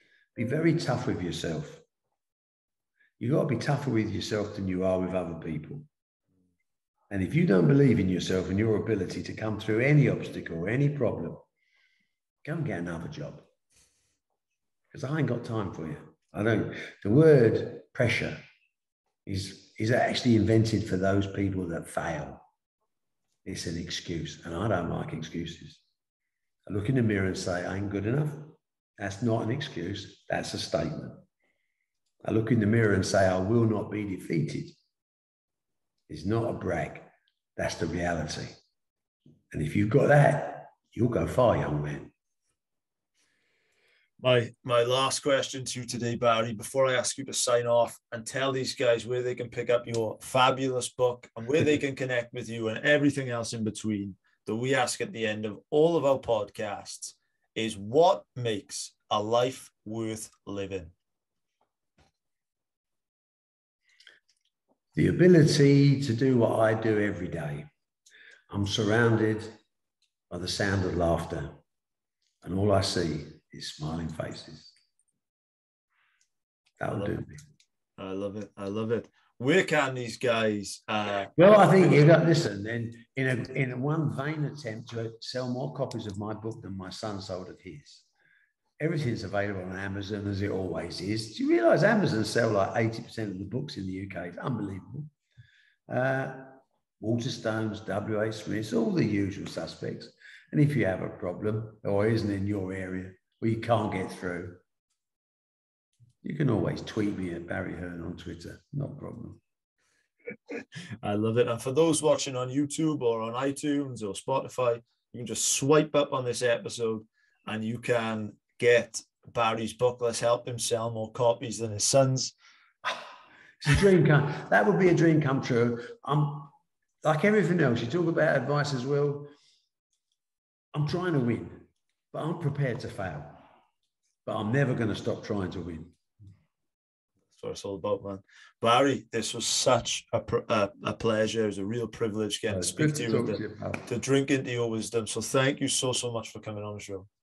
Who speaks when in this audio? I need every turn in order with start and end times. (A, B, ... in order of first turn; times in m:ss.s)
0:00.4-0:01.8 A
0:03.2-0:05.9 A
0:07.1-0:11.5 A
0:12.4-0:13.4 A
0:14.9-0:18.4 A
0:19.3-0:22.4 A
0:23.4-0:25.8 A
0:26.7-0:31.2 A
0:32.2-0:34.8 A
0:36.1-0:38.6 A
0:39.5-0:42.1 A
0:44.2-1:00.9 B
1:05.0-1:07.7 A
1:08.5-1:09.6 A
1:10.3-1:11.6 A
1:12.4-1:14.7 A
1:16.8-1:17.4 A
1:18.0-1:22.0 B
1:21.4-1:28.1 A
1:28.8-1:35.1 A
1:35.9-1:44.6 A
1:46.2-1:49.4 A
1:50.5-2:02.4 B
2:03.6-2:06.5 A
2:07.0-2:09.3 A
2:10.7-2:13.4 A
2:14.3-2:15.9 A
2:17.3-2:27.1 B
2:22.5-2:23.9 A